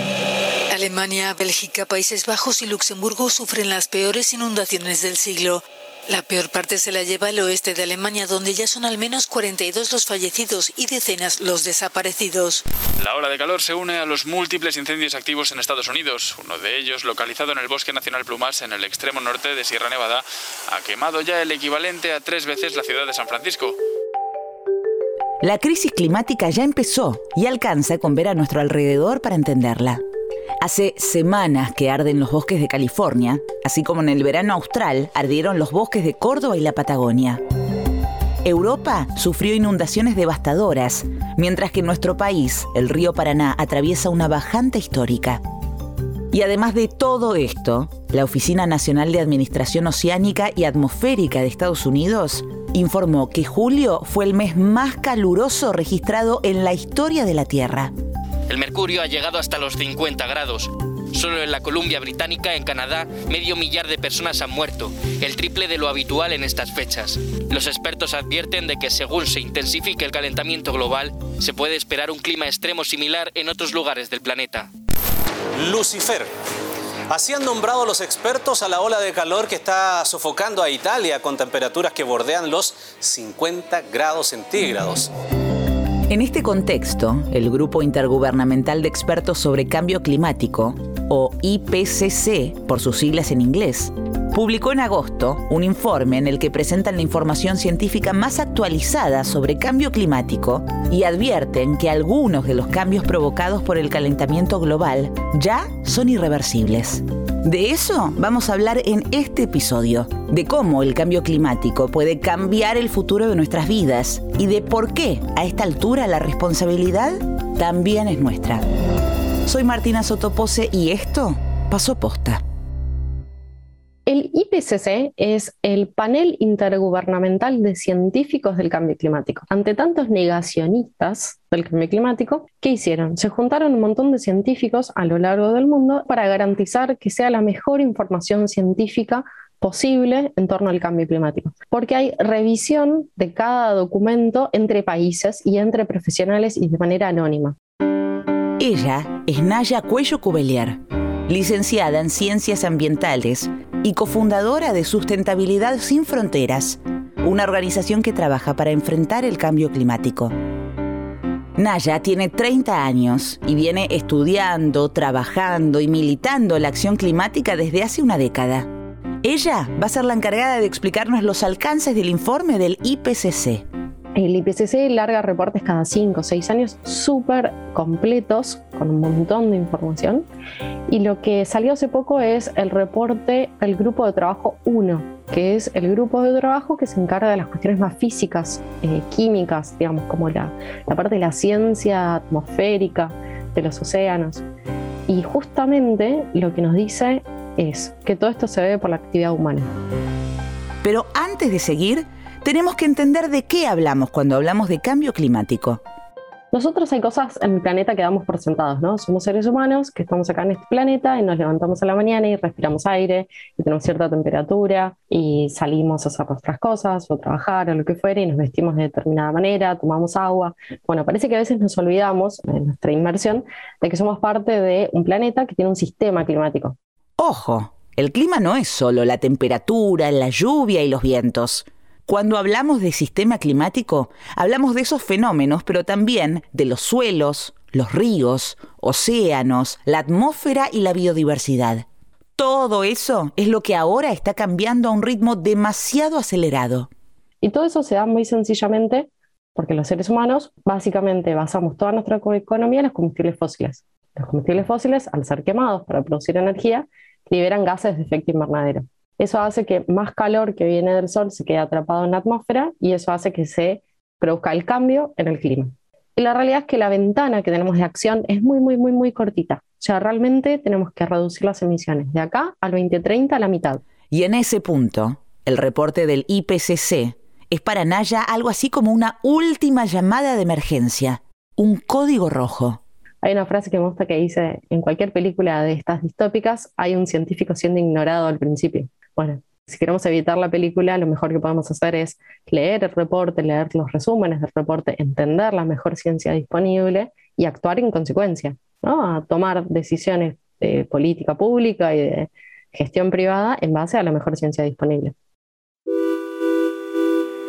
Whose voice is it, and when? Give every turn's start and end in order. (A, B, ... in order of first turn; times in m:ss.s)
0:00.7-0:12.6 A
0:13.0-0:23.8 B
0:25.4-0:30.0 C
0:30.6-0:37.4 C
0:38.4-0:45.4 C
0:46.3-0:57.9 C
0:58.5-1:14.7 D
1:15.6-1:16.3 E
1:17.1-1:25.1 E
1:26.1-1:58.6 C
1:59.5-2:02.4 C
2:04.1-2:27.6 F
2:28.6-2:40.3 C
2:41.6-2:48.7 C
2:49.2-2:53.6 C
2:54.2-3:00.3 F
3:00.9-3:14.4 F
3:15.1-3:19.7 F
3:20.8-3:25.8 C
3:26.5-3:46.8 F
3:47.2-4:01.8 C
4:02.4-4:06.9 C
4:07.4-4:33.8 F
4:34.1-4:42.8 C
4:43.2-5:05.1 F